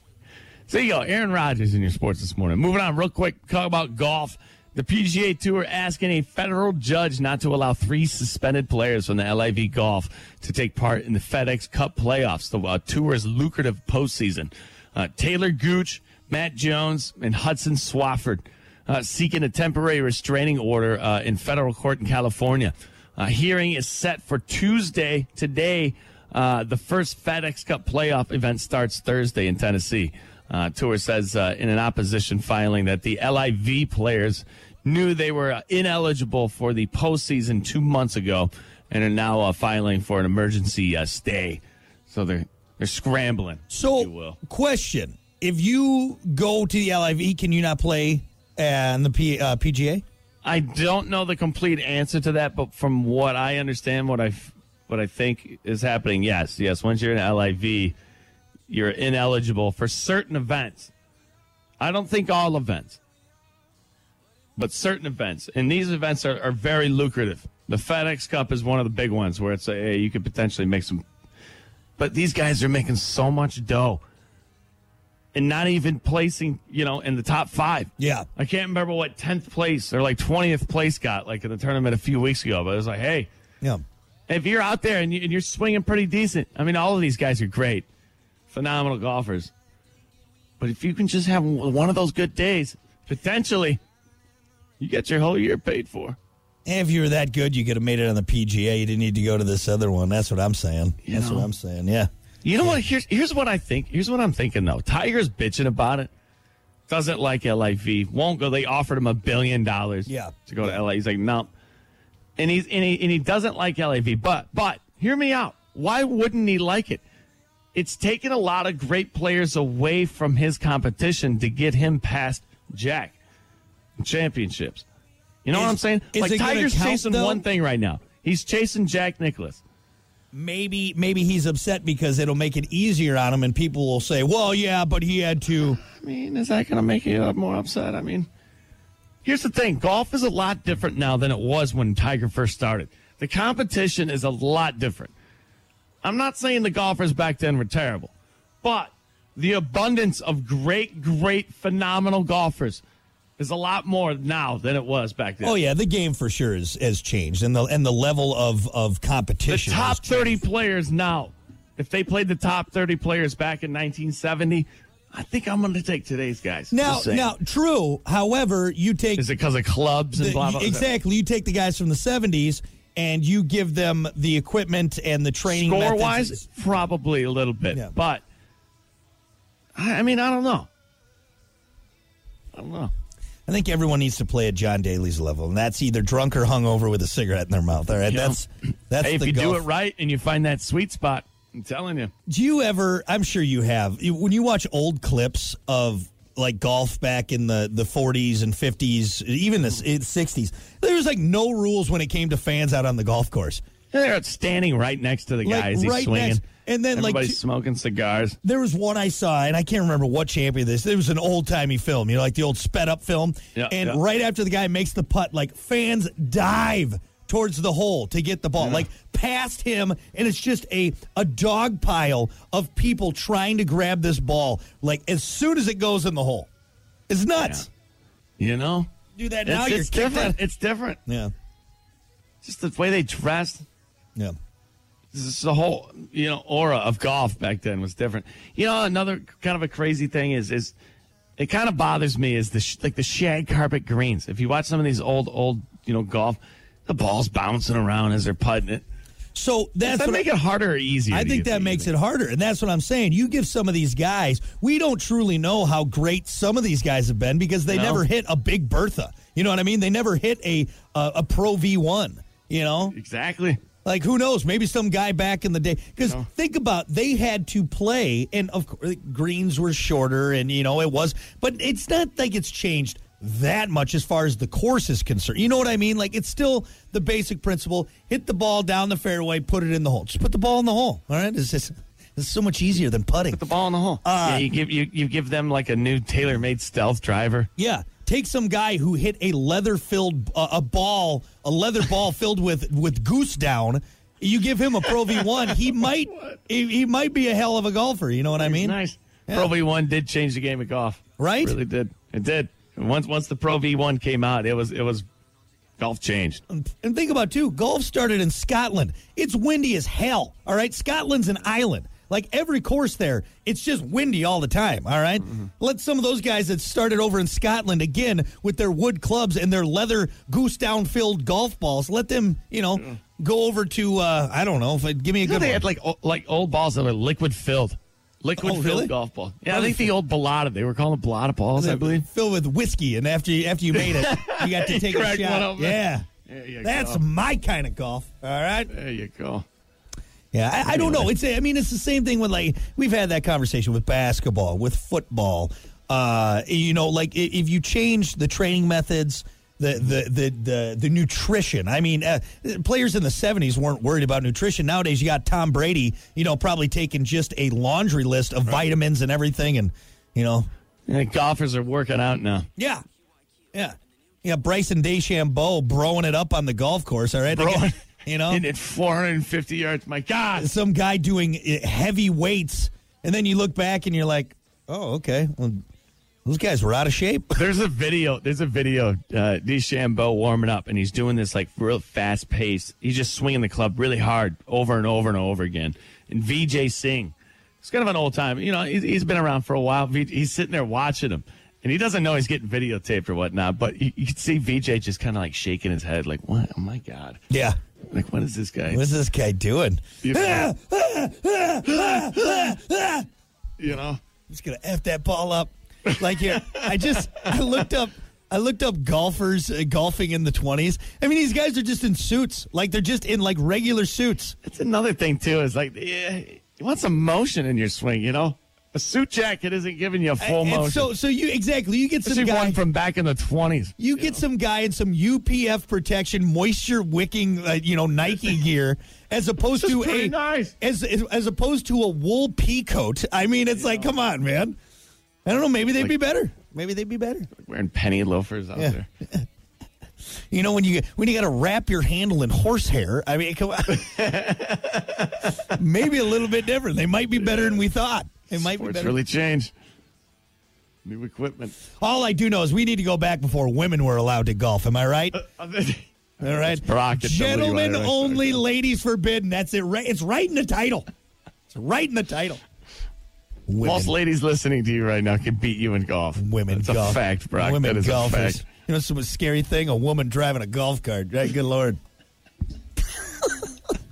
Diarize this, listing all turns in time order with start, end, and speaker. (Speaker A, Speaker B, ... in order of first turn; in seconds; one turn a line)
Speaker A: 0.7-44.4
Speaker B: 43.7-50.0
Speaker A: 50.4-57.9
Speaker A: 58.7-60.9
Speaker A: 61.8-63.0
Speaker A: 64.6-71.0
Speaker A: 72.0-74.0
Speaker A: 75.3-83.3
Speaker B: 78.0-78.3
Speaker A: 84.3-87.9
Speaker A: 88.5-89.5
Speaker A: 90.6-93.8
Speaker A: 94.8-96.2
Speaker B: 96.7-102.1
Speaker A: 101.0-101.5
Speaker A: 102.4-106.1
Speaker A: 106.9-111.5
Speaker B: 110.1-110.8
Speaker A: 112.4-117.0
Speaker A: 117.7-123.2
Speaker A: 124.0-124.8
Speaker A: 125.5-129.6
Speaker B: 125.5-127.4
Speaker B: 130.3-135.8
Speaker A: 135.8-138.3
Speaker A: 139.2-145.1
Speaker A: 146.0-152.8
Speaker A: 153.4-155.6
Speaker B: 155.4-160.4
Speaker A: 159.5-167.3
Speaker B: 166.7-169.3
Speaker A: 169.2-170.9
Speaker B: 170.2-176.4
Speaker A: 175.5-178.2
Speaker A: 179.8-180.7
Speaker A: 182.6-182.9
Speaker B: 183.5-189.6
Speaker A: 188.1-188.4
Speaker A: 189.0-192.1
Speaker B: 192.3-203.6
Speaker A: 203.9-208.4
Speaker B: 205.4-207.4
Speaker B: 208.4-226.5
Speaker A: 213.6-214.0
Speaker A: 218.6-218.8
Speaker B: 227.1-227.7
Speaker A: 227.4-227.7
Speaker A: 228.4-228.9
Speaker B: 229.2-230.4
Speaker A: 229.4-231.0
Speaker B: 231.1-231.3
Speaker A: 232.4-233.7
Speaker A: 235.1-240.7
Speaker A: 241.4-248.8
Speaker B: 249.3-250.3
Speaker A: 249.8-251.9
Speaker B: 251.1-262.9
Speaker A: 257.7-258.0
Speaker A: 262.9-263.6
Speaker B: 263.8-283.4
Speaker A: 283.3-287.5
Speaker B: 284.0-284.5
Speaker B: 287.6-298.8
Speaker A: 296.1-296.4
Speaker A: 298.4-305.1
Speaker B: 301.2-301.6
Speaker A: 305.8-306.4
Speaker B: 306.5-325.6
Speaker A: 325.2-332.1
Speaker B: 328.4-328.9
Speaker B: 329.5-329.9
Speaker B: 331.6-336.1
Speaker A: 333.8-337.0
Speaker B: 336.6-338.7
Speaker A: 338.7-339.4
Speaker B: 340.3-360.5
Speaker A: 340.7-341.1
Speaker A: 360.9-362.5
Speaker B: 362.6-362.8
Speaker B: 363.5-368.4
Speaker A: 367.3-370.5
Speaker B: 370.4-375.6
Speaker B: 376.2-377.4
Speaker A: 377.3-397.2
Speaker B: 397.3-397.6
Speaker A: 397.9-398.9
Speaker B: 398.7-403.1
Speaker A: 400.0-400.5
Speaker A: 401.7-402.5
Speaker A: 403.6-404.0
Speaker B: 404.3-414.4
Speaker A: 406.3-406.6
Speaker A: 414.4-420.9
Speaker B: 420.2-422.6
Speaker A: 422.1-424.2
Speaker B: 423.8-434.6
Speaker A: 429.5-430.6
Speaker B: 435.2-437.3
Speaker A: 437.3-438.9
Speaker B: 438.6-439.2
Speaker B: 440.3-444.0
Speaker A: 443.7-445.3
Speaker B: 445.5-449.0
Speaker A: 448.3-449.5
Speaker A: 450.9-451.6
Speaker B: 451.8-455.2
Speaker A: 455.2-458.4
Speaker B: 456.2-460.9
Speaker B: 461.5-462.4
Speaker B: 463.5-463.9
Speaker A: 463.6-468.4
Speaker B: 466.2-471.8